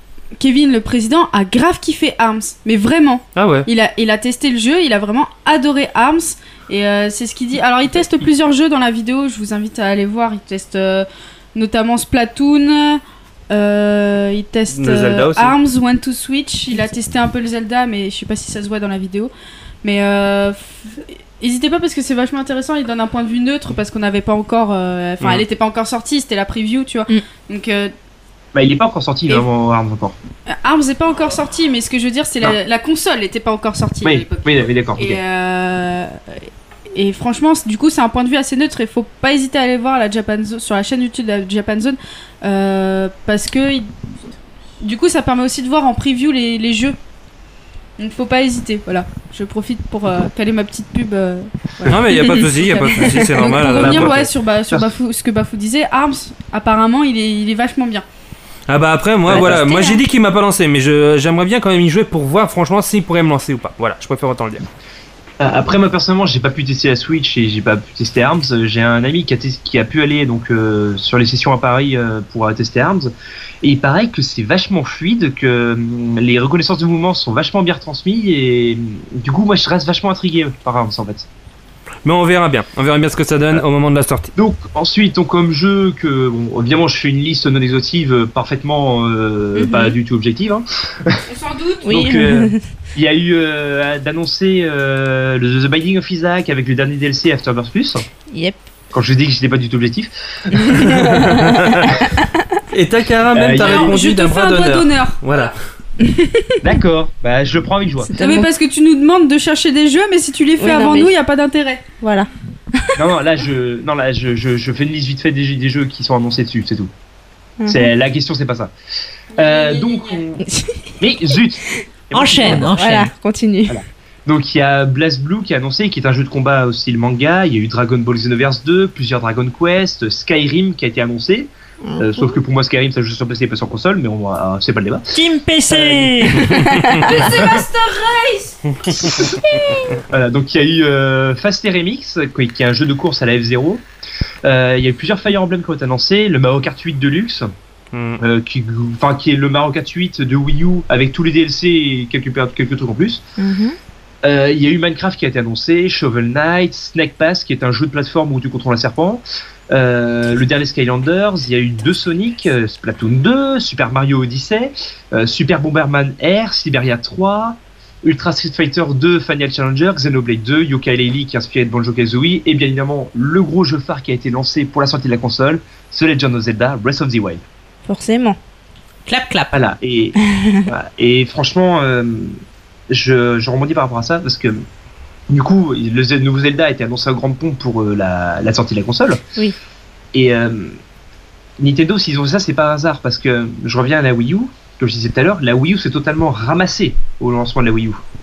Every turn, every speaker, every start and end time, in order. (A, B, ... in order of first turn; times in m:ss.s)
0:00.4-0:19.3 A
0:03.3-0:03.7 B
0:14.7-0:15.6 B
0:19.8-0:27.9 A
0:28.5-0:30.2 C
0:30.5-0:43.9 A
0:34.0-0:35.2 C
0:44.8-0:47.0 A
0:48.0-0:58.0 A
0:51.9-0:54.3 B
0:53.8-0:54.9 C
0:58.7-1:04.6 B
0:59.3-0:59.8 C
0:59.3-0:59.9 A
1:05.4-1:21.3 C
1:22.0-1:24.3 B
1:24.4-1:31.2 C
1:29.5-1:30.0 D
1:31.2-1:31.9 A
1:31.9-1:32.6 D
1:31.9-1:38.0 C
1:38.3-1:38.7 D
1:38.9-1:41.0 C
1:40.8-1:41.9 D
1:41.0-1:41.9 B
1:42.7-1:45.5 B
1:43.3-1:44.0 C
1:43.6-1:45.5 A
1:46.0-1:46.7 D
1:46.6-1:48.1 C
1:48.0-1:48.5 D
1:48.2-1:51.8 A
1:50.6-1:51.1 D
1:52.0-1:53.0 D
1:53.0-1:56.9 C
1:57.6-1:57.9 D
1:57.7-1:58.7 C
1:59.3-2:00.2 A
1:59.3-2:00.4 C
2:00.4-2:00.8 D
2:01.0-2:02.7 C
2:02.1-2:03.1 E
2:02.4-2:03.8 D
2:03.7-2:16.5 C
2:11.8-2:12.3 D
2:15.1-2:16.5 E
2:16.3-2:17.1 B
2:16.6-2:17.0 D
2:17.0-2:18.6 A
2:17.2-2:17.6 C
2:18.8-2:19.3 B
2:18.9-2:19.4 C
2:20.1-2:23.8 C
2:24.4-2:27.5 C
2:27.9-2:28.2 B
2:28.2-2:33.2 C
2:33.4-2:33.8 D
2:34.2-2:57.4 C
2:57.8-2:58.4 D
2:59.0-2:59.6 E
2:59.5-3:02.4 C
3:00.2-3:00.7 D
3:02.9-3:04.6 C
3:05.3-3:09.2 C
3:10.1-3:10.8 C
3:11.6-3:18.0 C